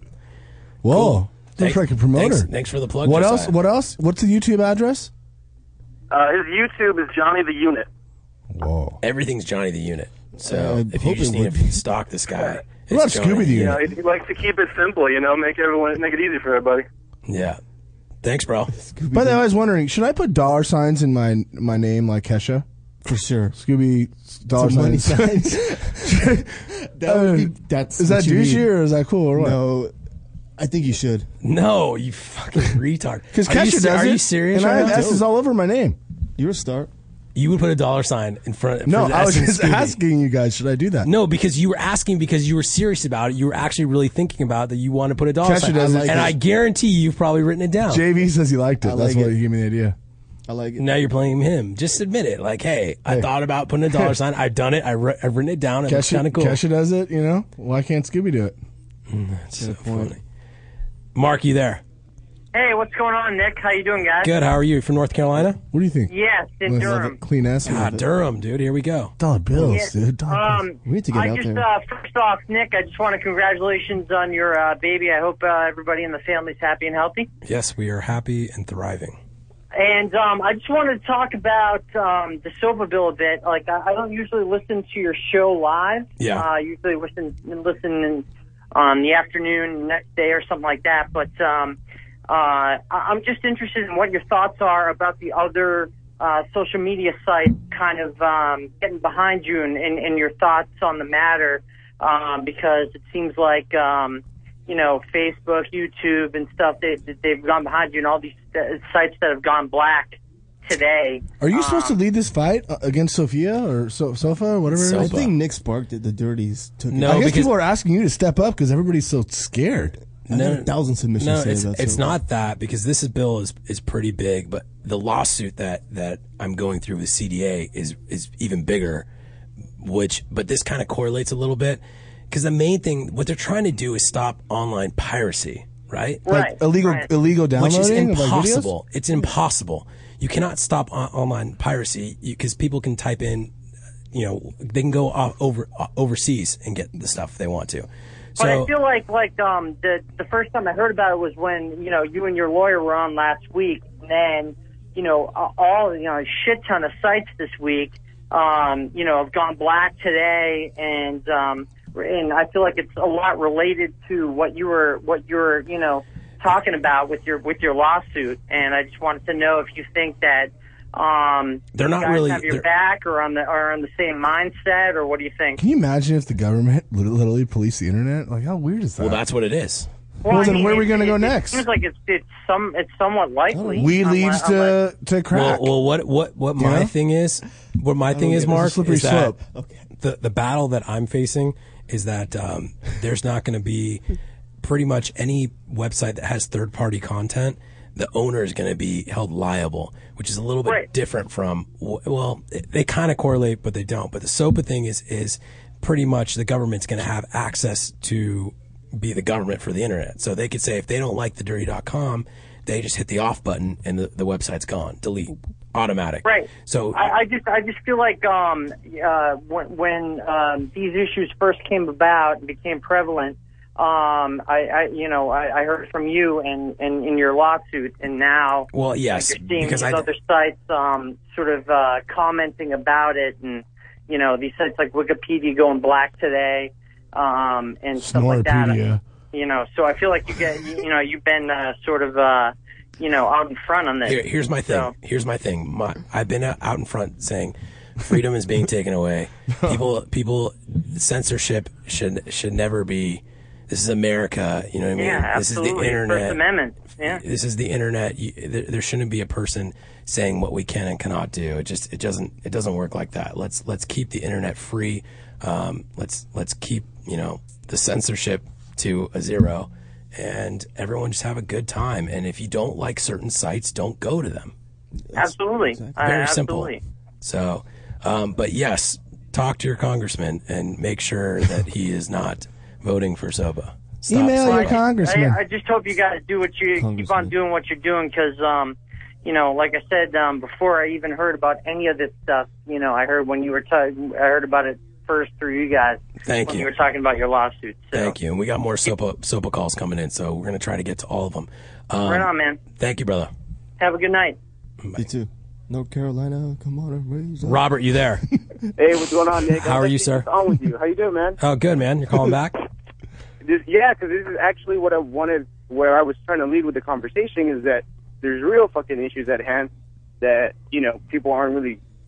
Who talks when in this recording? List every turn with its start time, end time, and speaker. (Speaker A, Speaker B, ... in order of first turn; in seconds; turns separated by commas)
Speaker A: 0.8-2.5, Speaker B: 0.9-3.6, Speaker A: 3.0-5.1, Speaker C: 6.1-7.9, Speaker A: 8.5-9.0, Speaker B: 9.0-13.8, Speaker D: 10.4-11.8, Speaker A: 12.9-13.8, Speaker C: 13.6-16.9, Speaker B: 17.3-17.6, Speaker B: 18.2-18.7, Speaker D: 18.7-19.4, Speaker A: 19.1-22.6, Speaker D: 23.1-23.6, Speaker A: 23.6-26.4, Speaker D: 24.6-28.7, Speaker A: 27.1-29.6, Speaker D: 29.4-29.9, Speaker D: 30.6-31.3, Speaker B: 31.4-35.1, Speaker A: 33.3-36.0, Speaker D: 34.6-35.3, Speaker D: 36.4-36.9, Speaker B: 37.4-40.0, Speaker A: 38.9-41.1, Speaker B: 41.0-48.1, Speaker A: 45.4-46.4, Speaker A: 47.9-50.0, Speaker D: 48.8-49.4, Speaker D: 50.5-50.9, Speaker B: 50.8-56.6, Speaker A: 55.9-58.5, Speaker B: 59.1-60.2, Speaker D: 59.6-60.2, Speaker B: 61.1-61.8, Speaker E: 62.5-64.3, Speaker B: 64.2-65.6, Speaker A: 65.7-66.1, Speaker E: 66.1-67.2, Speaker A: 66.7-67.9, Speaker D: 66.8-67.1, Speaker D: 67.6-68.0, Speaker B: 67.7-69.2, Speaker A: 69.2-70.6, Speaker E: 69.6-77.3, Speaker D: 70.8-71.7, Speaker B: 77.4-79.2, Speaker E: 79.7-91.8, Speaker B: 86.2-86.5, Speaker E: 92.3-112.0, Speaker A: 111.4-115.2, Speaker B: 114.7-115.3, Speaker D: 115.0-117.3, Speaker B: 116.9-117.5, Speaker A: 117.0-120.0, Speaker D: 120.3-122.1, Speaker B: 120.3-129.1, Speaker B: 129.8-136.2, Speaker E: 136.2-137.0, Speaker A: 136.3-138.7, Speaker B: 137.6-143.5, Speaker B: 144.1-148.7, Speaker E: 148.4-175.6, Speaker B: 171.7-172.7, Speaker A: 175.6-179.2, Speaker B: 179.0-179.9, Speaker E: 180.2-184.8, Speaker A: 180.3-181.7, Speaker D: 183.5-184.0, Speaker A: 183.8-185.7, Speaker B: 185.3-189.3, Speaker A: 186.6-186.9, Speaker D: 188.2-188.5, Speaker A: 188.3-189.4, Speaker D: 189.5-189.9, Speaker B: 190.0-194.0, Speaker B: 194.6-217.1, Speaker E: 216.2-238.8, Speaker B: 228.7-230.1, Speaker A: 238.0-239.0, Speaker E: 239.3-244.9, Speaker B: 244.1-256.4, Speaker E: 255.0-257.2, Speaker B: 257.1-274.5, Speaker D: 275.1-276.0, Speaker E: 275.2-276.8, Speaker B: 276.0-284.9, Speaker A: 284.1-285.4, Speaker E: 284.4-298.1, Speaker D: 286.8-287.3, Speaker B: 296.2-296.7, Speaker B: 297.9-303.3, Speaker E: 302.0-302.6, Speaker E: 303.8-304.4, Speaker D: 305.0-307.7, Speaker B: 307.4-308.2, Speaker F: 308.8-311.4, Speaker B: 309.6-310.3, Speaker B: 311.4-312.6, Speaker F: 313.4-319.7, Speaker F: 320.2-321.8